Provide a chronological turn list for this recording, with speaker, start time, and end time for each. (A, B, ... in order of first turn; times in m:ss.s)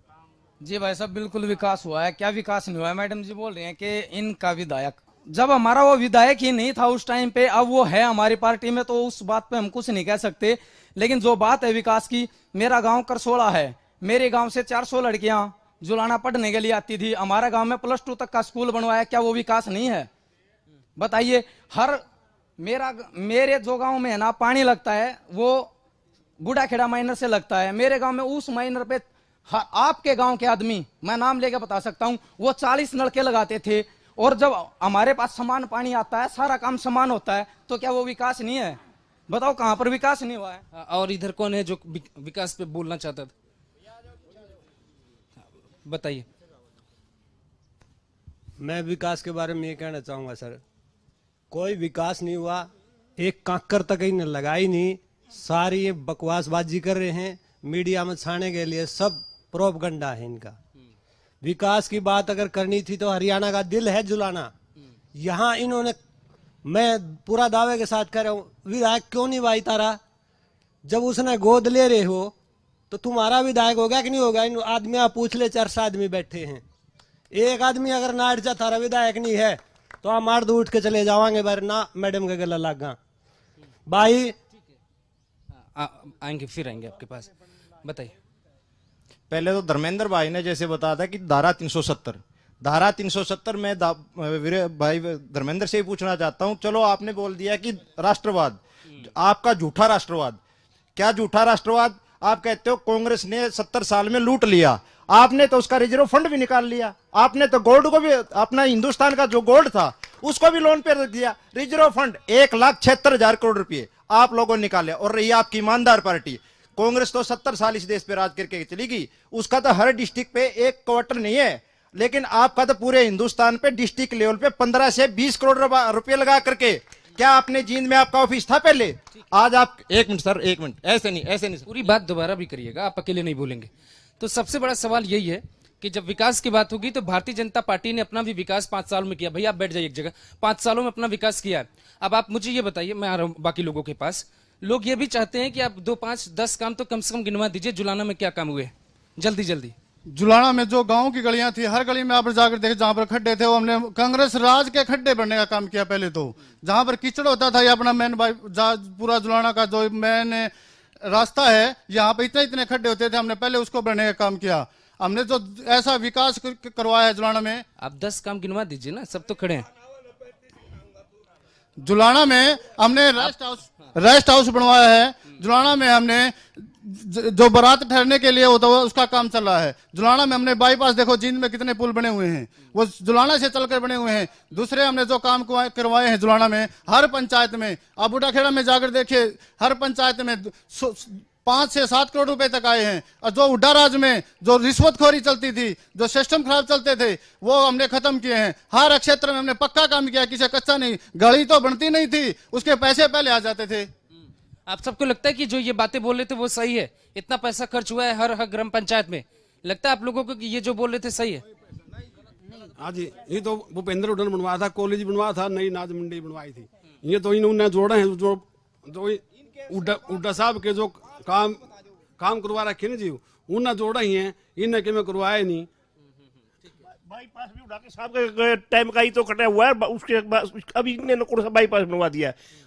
0:00.6-0:20.1 A
0:21.0-0:22.0 A
0:22.6-0:25.7 A
0:26.4-0:40.6 A
0:40.7-0:43.3 B
0:45.9-0:46.3 B
0:48.6-0:50.6 C
0:51.5-1:00.6 C
1:01.4-1:04.5 C
1:05.1-1:06.0 C
1:06.6-1:10.0 C
1:10.9-1:12.3 C
1:12.9-1:16.6 C
1:17.3-1:23.0 C
1:23.9-1:24.4 C
1:25.8-1:27.3 B
1:27.8-1:28.1 B
1:29.3-1:40.4 D
1:41.0-2:11.6 D
2:11.7-2:29.7 B
2:30.1-2:40.5 E
2:41.0-2:47.6 E
2:47.8-2:49.6 B
2:51.8-3:23.9 E
3:24.7-3:31.4 B
3:32.8-3:41.6 F
3:42.2-3:45.7 F
3:47.1-3:52.4 G